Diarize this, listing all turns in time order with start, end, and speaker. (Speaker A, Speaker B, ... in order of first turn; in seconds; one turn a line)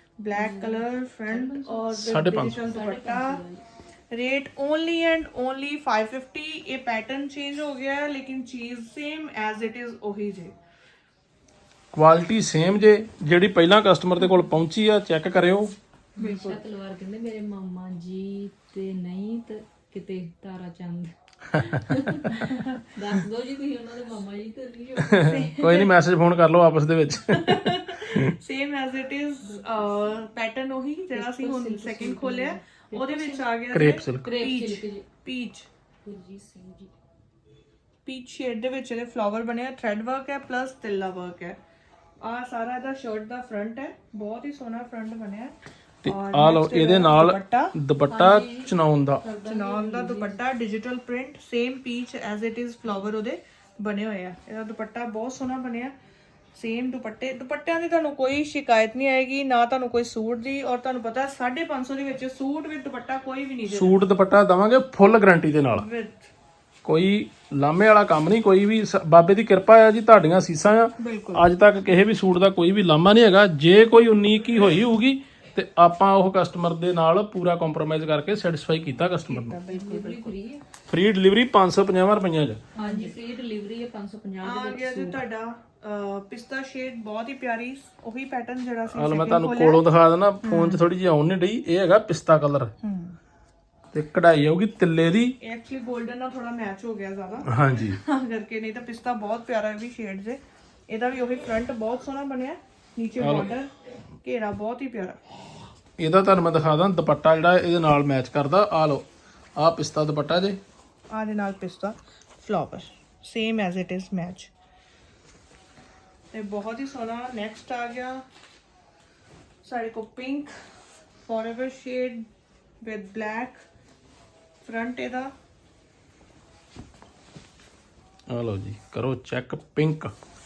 Speaker A: 0.2-3.4
Speaker B: 0.3-3.6
Speaker C: 2.0-2.6
Speaker A: 4.1-10.5
Speaker C: 11.9-15.7
Speaker B: 16.2-25.4
Speaker A: 16.2-16.6
Speaker A: 22.4-22.8
Speaker C: 25.1-28.3
Speaker A: 25.2-25.9
Speaker A: 27.3-35.7
Speaker B: 29.4-30.1
Speaker B: 31.1-33.6
Speaker C: 33.7-34.3
Speaker B: 34.2-35.0
Speaker B: 36.0-36.9
Speaker A: 38.0-41.6
Speaker A: 42.2-45.5
Speaker C: 46.0-49.2
Speaker A: 46.0-47.8
Speaker B: 48.1-50.4
Speaker A: 49.5-55.9
Speaker A: 56.5-64.0
Speaker C: 63.7-65.9
Speaker A: 65.7-66.3
Speaker C: 66.8-79.6
Speaker A: 71.0-71.5
Speaker A: 79.2-80.4
Speaker B: 79.7-80.6
Speaker C: 80.9-82.6
Speaker B: 82.8-85.2
Speaker A: 82.8-83.2
Speaker A: 84.4-89.8
Speaker C: 88.9-92.7
Speaker A: 90.4-90.8
Speaker A: 92.8-93.2
Speaker C: 93.9-95.4
Speaker A: 95.4-103.7
Speaker C: 97.5-98.0
Speaker C: 103.2-103.5
Speaker A: 104.2-105.2
Speaker C: 106.0-109.0
Speaker C: 109.6-110.6
Speaker A: 111.1-114.5
Speaker A: 116.3-118.2
Speaker A: 119.6-120.5
Speaker A: 121.2-122.3
Speaker A: 122.8-123.7
Speaker A: 124.6-125.3
Speaker C: 128.3-130.1